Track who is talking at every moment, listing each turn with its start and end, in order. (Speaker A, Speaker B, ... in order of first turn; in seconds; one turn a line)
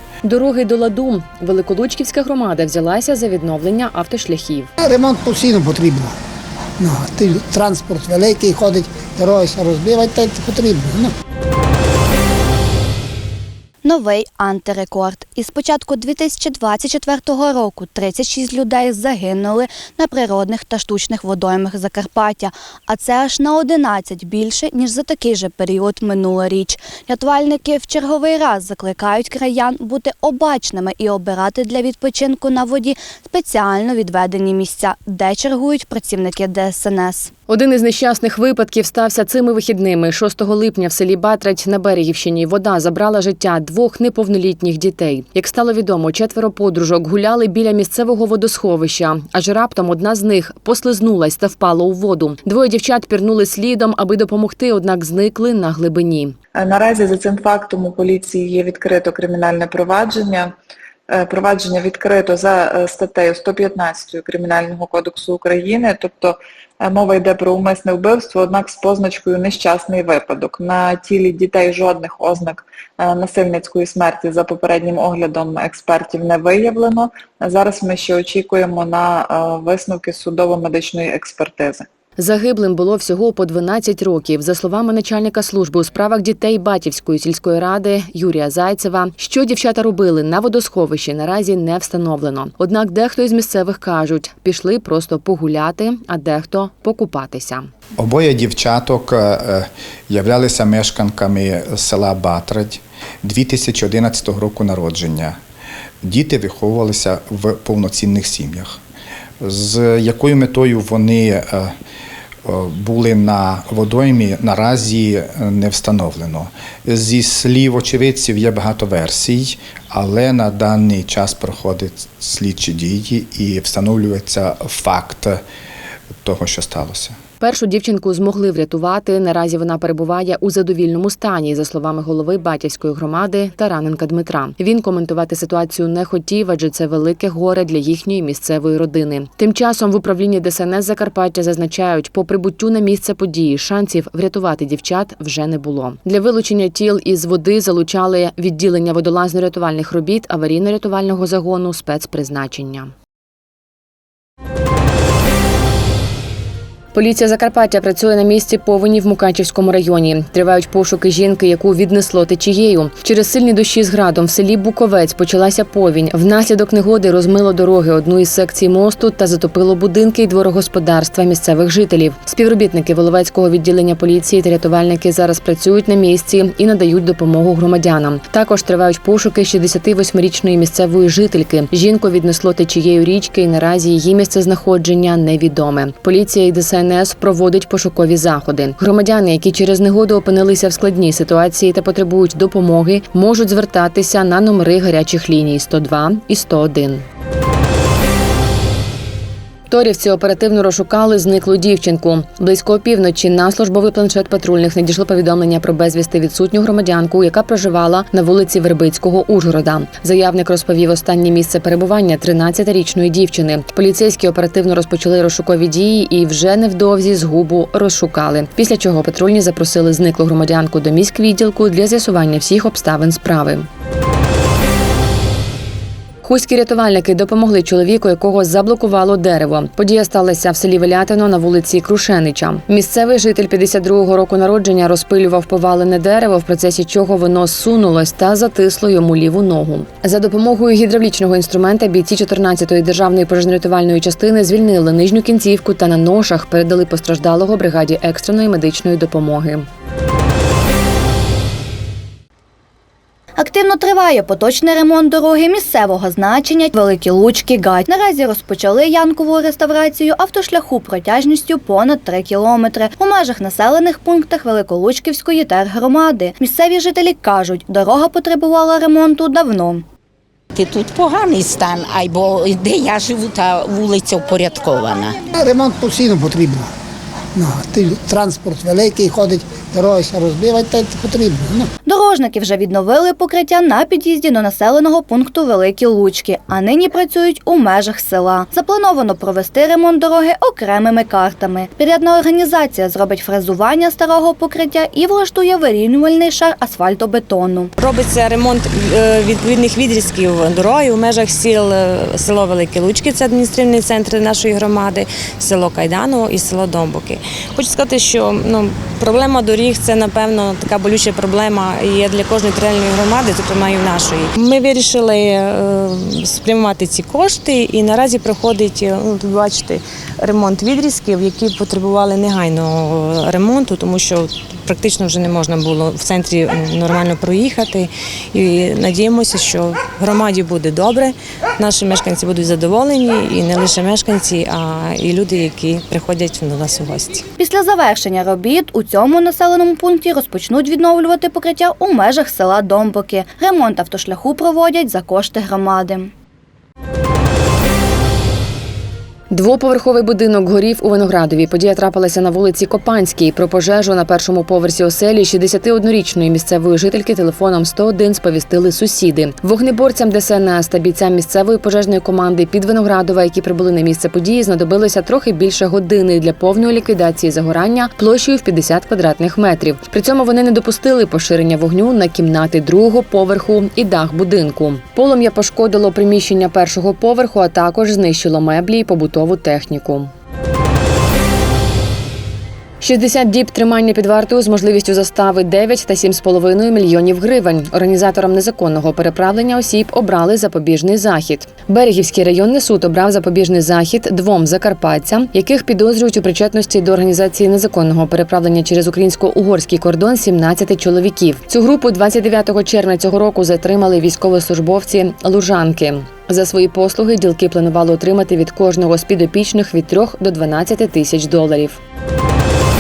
Speaker A: 0.2-4.7
Speaker B: 4.8-6.1
Speaker B: 6.8-11.1
Speaker C: 13.8-37.3
Speaker A: 37.5-56.4
Speaker D: 56.6-60.5
Speaker D: 61.1-81.9
Speaker A: 82.2-97.7
Speaker E: 98.0-105.4
Speaker E: 106.0-108.8
Speaker E: 109.4-111.7
Speaker E: 112.5-125.4
Speaker E: 126.2-127.2
Speaker A: 127.4-152.9
Speaker A: 156.9-197.1
Speaker A: 199.7-223.7
Speaker A: 226.2-249.7
Speaker C: 253.4-269.8
Speaker F: 270.6-275.1
Speaker B: 275.4-276.7
Speaker B: 277.4-281.7
Speaker C: 281.9-297.7
Speaker G: 297.8-337.2
Speaker C: 337.4-346.1
Speaker A: 349.3-380.1
Speaker A: 382.8-411.8